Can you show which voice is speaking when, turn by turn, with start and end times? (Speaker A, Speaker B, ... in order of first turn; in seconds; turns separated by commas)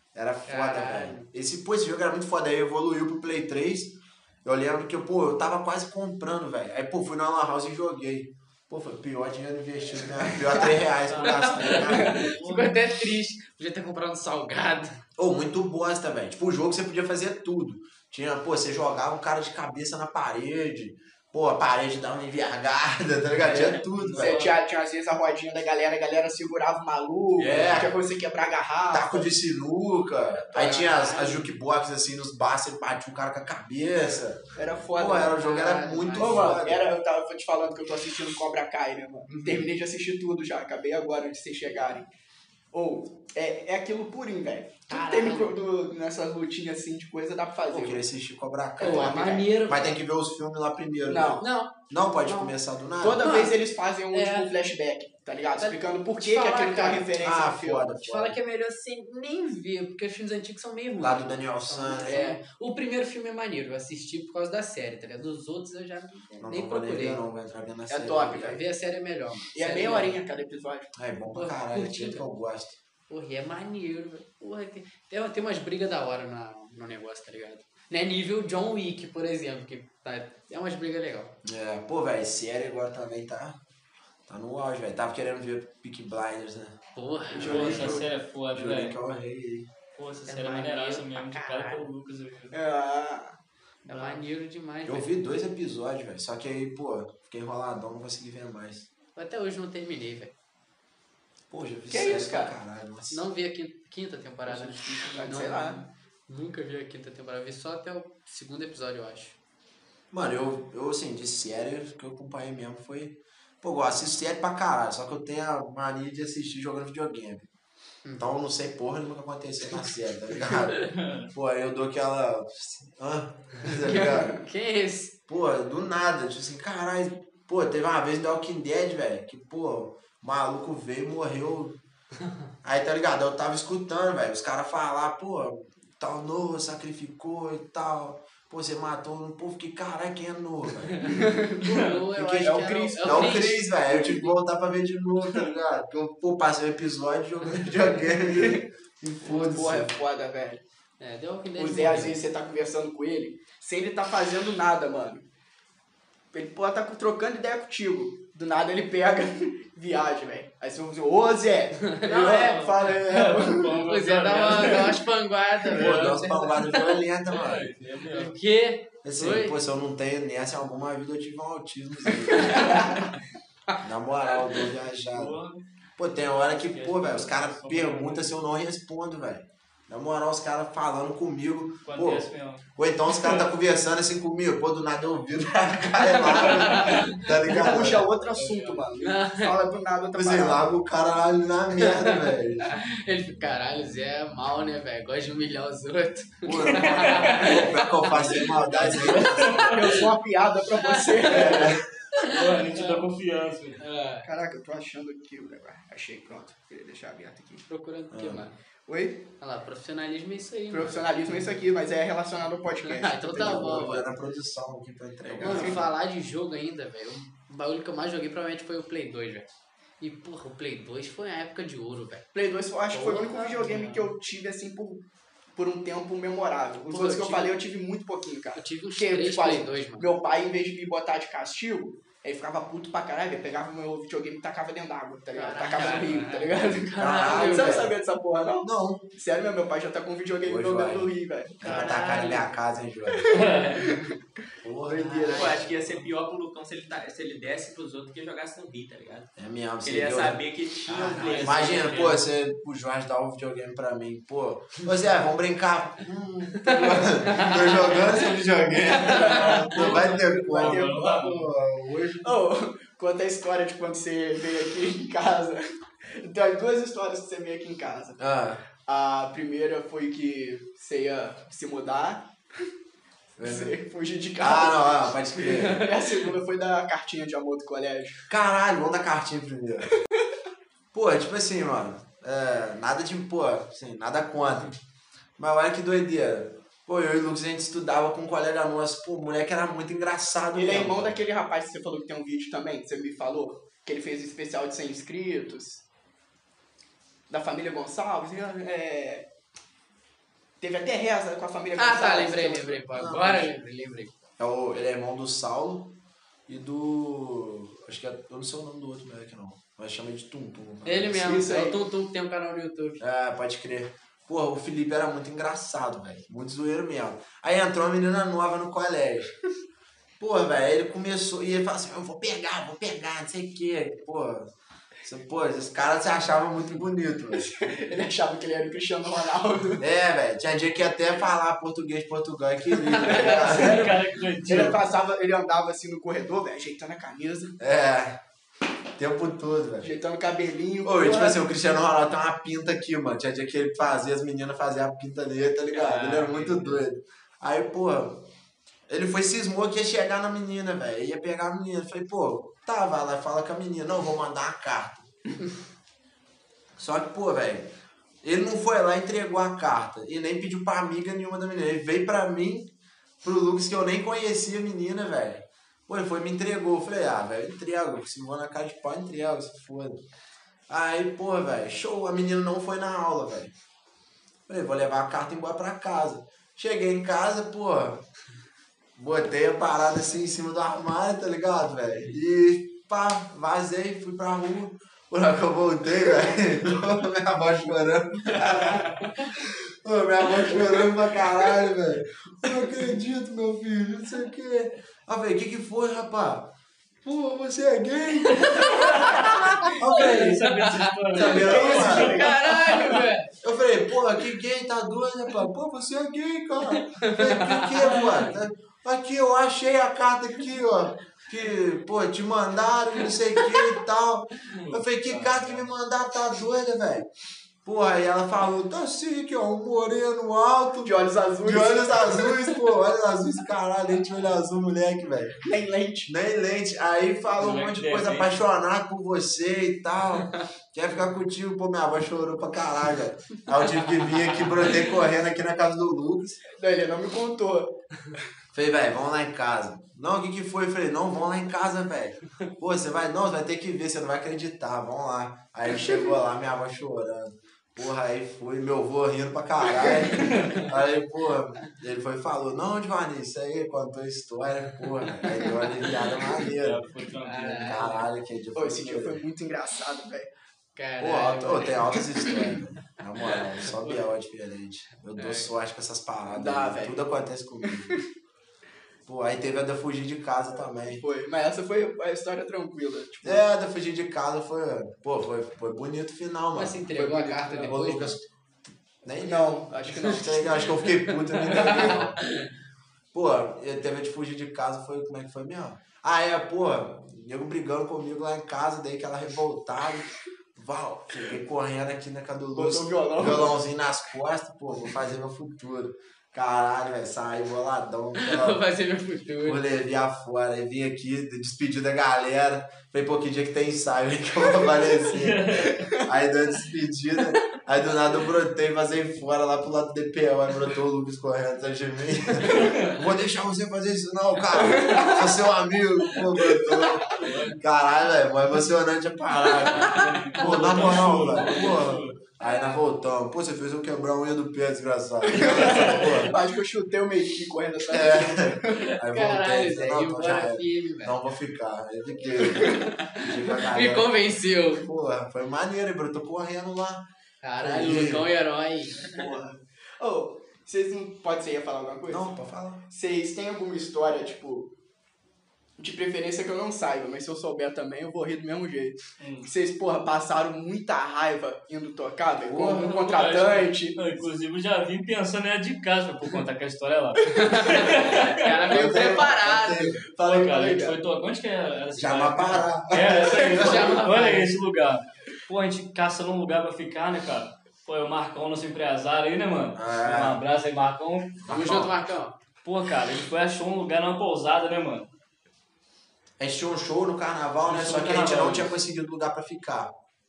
Speaker A: 0.1-12.3, Speaker B: 0.5-1.3, Speaker C: 11.1-12.8, Speaker B: 11.3-15.0, Speaker A: 15.2-24.5, Speaker C: 23.6-24.5, Speaker D: 24.1-29.3, Speaker A: 27.4-27.9, Speaker A: 28.9-36.8, Speaker B: 30.5-31.4, Speaker D: 34.6-35.5, Speaker B: 35.4-36.7, Speaker D: 36.1-42.1, Speaker B: 39.3-39.6, Speaker D: 42.7-48.0, Speaker B: 44.9-45.6, Speaker A: 47.7-53.4, Speaker D: 48.8-49.5, Speaker B: 48.8-50.0, Speaker D: 51.1-51.4, Speaker B: 51.4-51.7, Speaker B: 52.2-52.5, Speaker D: 53.0-58.0, Speaker B: 53.2-53.6, Speaker B: 54.1-54.5, Speaker B: 55.6-57.1, Speaker A: 57.2-58.4, Speaker B: 58.0-67.2, Speaker A: 61.0-62.2, Speaker D: 62.0-62.4, Speaker A: 66.4-68.6, Speaker D: 67.9-68.6, Speaker B: 68.4-70.2, Speaker D: 69.5-70.9, Speaker A: 71.0-72.8, Speaker B: 71.3-72.2, Speaker B: 73.1-81.3, Speaker A: 81.4-83.6, Speaker A: 84.3-86.8, Speaker B: 87.0-88.0, Speaker A: 87.3-89.7, Speaker C: 87.3-89.0, Speaker C: 90.0-92.6, Speaker B: 90.3-91.9, Speaker D: 92.5-93.4, Speaker B: 93.9-95.1, Speaker A: 94.9-98.9, Speaker B: 99.2-100.3, Speaker A: 101.5-103.2, Speaker D: 101.9-102.5, Speaker B: 103.1-109.4, Speaker D: 104.5-105.8, Speaker A: 110.1-117.5, Speaker A: 118.2-124.4, Speaker C: 120.9-121.3, Speaker B: 123.8-125.1, Speaker D: 123.9-124.3, Speaker A: 125.3-131.8, Speaker A: 132.6-141.3, Speaker B: 141.0-144.3, Speaker D: 141.1-141.8, Speaker A: 142.1-149.9, Speaker D: 142.4-143.6, Speaker D: 148.3-148.6, Speaker D: 149.3-150.6, Speaker B: 151.0-152.2, Speaker D: 151.6-155.2, Speaker D: 156.3-163.9, Speaker B: 161.9-167.0, Speaker C: 162.2-165.0, Speaker C: 165.7-166.1, Speaker A: 165.7-167.7, Speaker C: 167.3-168.3, Speaker B: 168.1-169.6, Speaker A: 169.0-173.0, Speaker B: 172.4-172.9, Speaker D: 172.6-172.8, Speaker A: 173.8-175.4, Speaker C: 175.1-175.6, Speaker A: 176.0-188.1, Speaker C: 176.5-178.4, Speaker C: 181.8-182.6, Speaker B: 186.1-187.6, Speaker C: 186.6-187.0, Speaker D: 187.5-190.7, Speaker C: 188.4-188.8, Speaker B: 189.0-189.5, Speaker A: 190.2-192.7, Speaker B: 191.8-198.4, Speaker A: 196.4-199.8, Speaker C: 196.7-197.5, Speaker C: 198.1-200.0, Speaker B: 199.1-199.7, Speaker D: 199.7-201.8, Speaker B: 201.1-201.7, Speaker A: 201.3-201.8, Speaker C: 202.2-203.8, Speaker B: 202.2-203.0, Speaker B: 203.8-204.3, Speaker D: 204.2-207.7, Speaker B: 207.7-208.5, Speaker A: 208.1-208.4, Speaker D: 208.9-209.3, Speaker B: 209.4-211.4, Speaker D: 210.7-214.0, Speaker B: 212.8-214.1, Speaker A: 213.3-215.8, Speaker B: 215.4-219.5, Speaker D: 215.4-215.8, Speaker B: 220.0-222.2, Speaker D: 222.3-225.0, Speaker B: 222.9-224.1, Speaker D: 225.6-242.2, Speaker B: 226.9-227.5, Speaker B: 228.6-230.1, Speaker B: 235.3-237.9, Speaker E: 235.8-236.2, Speaker A: 237.0-237.9, Speaker A: 238.6-239.1, Speaker A: 240.4-241.1, Speaker A: 241.6-243.4, Speaker B: 241.6-242.5, Speaker D: 243.1-244.1, Speaker C: 243.3-243.9, Speaker A: 244.6-245.7, Speaker D: 244.8-245.6, Speaker B: 244.9-245.6, Speaker E: 245.3-249.3, Speaker A: 249.4-262.4, Speaker E: 249.8-252.2, Speaker C: 251.1-252.2, Speaker B: 256.6-258.3, Speaker B: 259.0-259.4, Speaker D: 259.1-261.2, Speaker C: 259.2-261.5, Speaker D: 262.2-268.2, Speaker A: 268.2-268.6, Speaker D: 268.8-272.7, Speaker A: 273.4-273.8, Speaker D: 273.4-278.2, Speaker A: 274.4-275.9, Speaker A: 278.3-279.9, Speaker A: 280.9-284.7, Speaker A: 285.4-291.2, Speaker D: 290.5-295.8, Speaker D: 297.3-299.3, Speaker D: 300.6-302.8, Speaker B: 301.8-304.1, Speaker A: 302.9-303.5, Speaker A: 304.4-306.0, Speaker A: 306.5-311.5, Speaker B: 310.9-313.0, Speaker D: 311.2-311.8, Speaker A: 313.0-319.4, Speaker A: 320.2-324.5, Speaker A: 325.0-327.5, Speaker D: 327.4-329.8, Speaker A: 329.8-333.9, Speaker D: 332.9-337.6, Speaker B: 332.9-333.4, Speaker C: 333.2-334.8, Speaker A: 334.4-334.8, Speaker A: 337.6-338.2, Speaker A: 339.0-339.9, Speaker D: 339.8-341.4, Speaker A: 340.8-348.3, Speaker D: 345.7-346.3, Speaker A: 348.9-355.1, Speaker A: 356.8-357.7, Speaker A: 358.2-362.7, Speaker A: 363.2-370.0, Speaker A: 370.7-373.5, Speaker A: 374.5-378.0, Speaker A: 379.0-396.5, Speaker A: 397.0-402.2, Speaker C: 398.3-403.0, Speaker B: 398.9-399.4, Speaker B: 400.0-403.3, Speaker D: 401.2-403.0, Speaker A: 403.4-417.1, Speaker B: 407.0-407.7, Speaker C: 414.6-415.7, Speaker A: 417.6-425.4, Speaker D: 420.8-422.3, Speaker D: 425.4-426.1, Speaker A: 426.1-436.4, Speaker C: 427.4-428.4, Speaker D: 436.5-437.8, Speaker A: 438.5-456.9, Speaker C: 450.1-450.7, Speaker C: 456.5-457.9, Speaker B: 457.2-458.0, Speaker A: 457.5-459.2, Speaker D: 458.6-460.3, Speaker B: 460.8-462.4, Speaker A: 461.0-468.0, Speaker B: 465.2-465.5, Speaker D: 466.3-467.0, Speaker D: 467.7-468.0, Speaker A: 469.1-471.0, Speaker D: 470.9-473.4, Speaker A: 473.2-476.8, Speaker B: 476.6-478.2, Speaker D: 476.9-477.9, Speaker A: 477.7-478.3, Speaker A: 479.0-482.2, Speaker D: 479.2-480.8, Speaker B: 481.4-482.5, Speaker D: 481.5-482.1, Speaker A: 483.1-498.6, Speaker D: 492.6-493.6, Speaker B: 498.2-499.6, Speaker A: 499.4-526.4, Speaker C: 505.1-505.8, Speaker D: 505.7-506.0, Speaker C: 512.5-513.0, Speaker D: 514.6-515.3, Speaker D: 516.4-517.2, Speaker C: 517.0-517.6, Speaker C: 519.6-522.2, Speaker B: 522.4-522.8, Speaker D: 525.3-528.9, Speaker C: 525.6-526.2, Speaker A: 527.9-537.0, Speaker B: 529.0-531.1, Speaker B: 532.6-534.9, Speaker B: 537.4-539.1, Speaker A: 537.6-538.3, Speaker D: 539.0-542.3, Speaker A: 542.1-542.8, Speaker D: 542.9-544.7, Speaker D: 545.8-554.1, Speaker C: 549.2-549.5, Speaker A: 552.5-553.0, Speaker C: 552.8-559.0, Speaker B: 557.3-560.0, Speaker A: 558.6-560.0, Speaker D: 558.9-559.3, Speaker D: 560.1-561.0, Speaker C: 560.2-571.8, Speaker A: 562.0-564.0, Speaker D: 563.1-563.8, Speaker B: 563.5-564.5, Speaker A: 569.8-570.4, Speaker A: 571.4-572.0, Speaker B: 571.5-572.3, Speaker C: 572.6-575.1, Speaker A: 576.4-579.9, Speaker C: 577.6-578.7